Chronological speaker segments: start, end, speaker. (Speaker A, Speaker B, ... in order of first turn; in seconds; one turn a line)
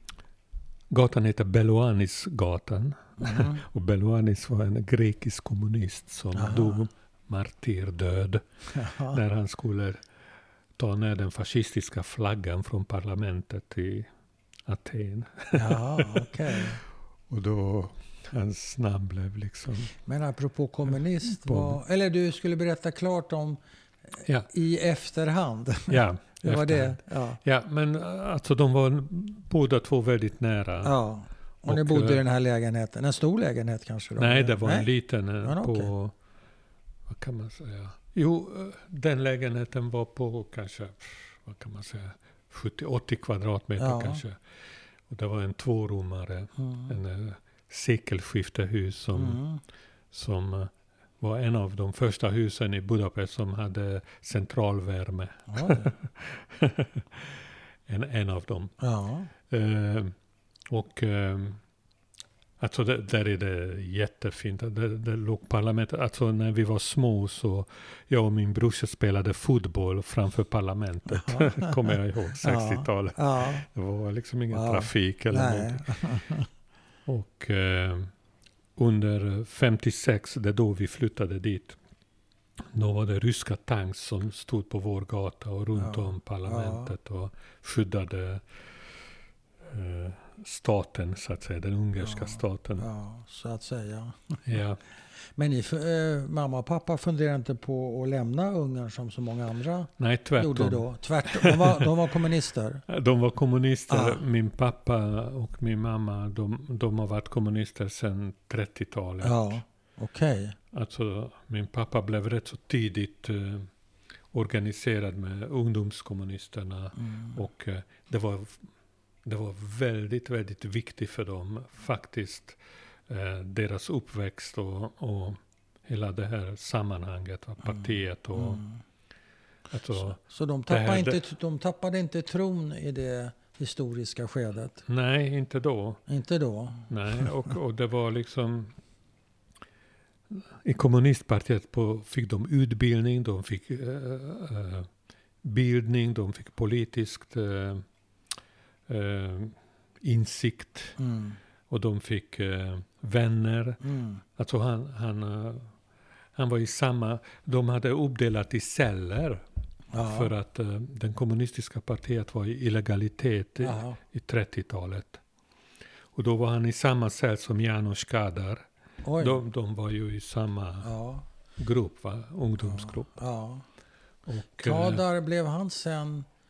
Speaker A: 0.9-10.0
Speaker B: 3.2-3.6
Speaker B: 6.3-6.8
Speaker B: 8.7-9.2
Speaker A: 10.8-14.1
Speaker A: 14.7-16.7
Speaker B: 15.5-16.8
Speaker A: 17.3-19.9
Speaker B: 20.1-23.6
Speaker A: 21.3-21.8
Speaker B: 24.5-27.4
Speaker A: 25.9-30.9
Speaker B: 30.8-34.9
Speaker A: 31.6-32.2
Speaker A: 34.2-36.1
Speaker B: 35.4-35.9
Speaker A: 37.1-44.4
Speaker B: 43.8-44.2
Speaker A: 45.1-49.4
Speaker B: 46.6-46.9
Speaker B: 49.1-49.6
Speaker A: 50.1-58.8
Speaker B: 55.5-55.9
Speaker B: 58.8-59.3
Speaker A: 59.5-60.1
Speaker A: 60.7-61.6
Speaker A: 62.6-75.9
Speaker B: 71.1-73.7
Speaker B: 74.5-76.5
Speaker A: 77.0-78.1
Speaker A: 78.8-81.8
Speaker A: 82.7-88.6
Speaker B: 85.8-86.9
Speaker A: 89.6-92.9
Speaker B: 92.0-94.4
Speaker A: 94.5-94.8
Speaker B: 95.3-102.8
Speaker A: 100.0-101.9
Speaker A: 102.9-109.6
Speaker B: 103.9-104.2
Speaker B: 109.2-110.5
Speaker A: 110.7-113.7
Speaker A: 114.3-118.6
Speaker B: 117.0-117.3
Speaker A: 119.2-128.6
Speaker B: 127.7-128.8
Speaker A: 129.7-131.2
Speaker B: 130.2-134.8
Speaker A: 134.9-136.0
Speaker B: 136.1-137.3
Speaker A: 136.9-138.7
Speaker A: 140.3-144.9
Speaker A: 145.4-147.8
Speaker A: 148.9-151.0
Speaker B: 151.0-151.4
Speaker A: 151.7-153.8
Speaker B: 153.8-154.2
Speaker A: 154.3-155.7
Speaker A: 156.3-159.4
Speaker B: 159.9-160.3
Speaker A: 160.0-165.2
Speaker B: 163.6-164.0
Speaker A: 166.1-168.7
Speaker B: 169.0-169.4
Speaker A: 169.2-170.9
Speaker B: 170.8-171.2
Speaker A: 171.6-173.2
Speaker B: 172.6-173.6
Speaker A: 174.2-175.0
Speaker B: 174.6-176.3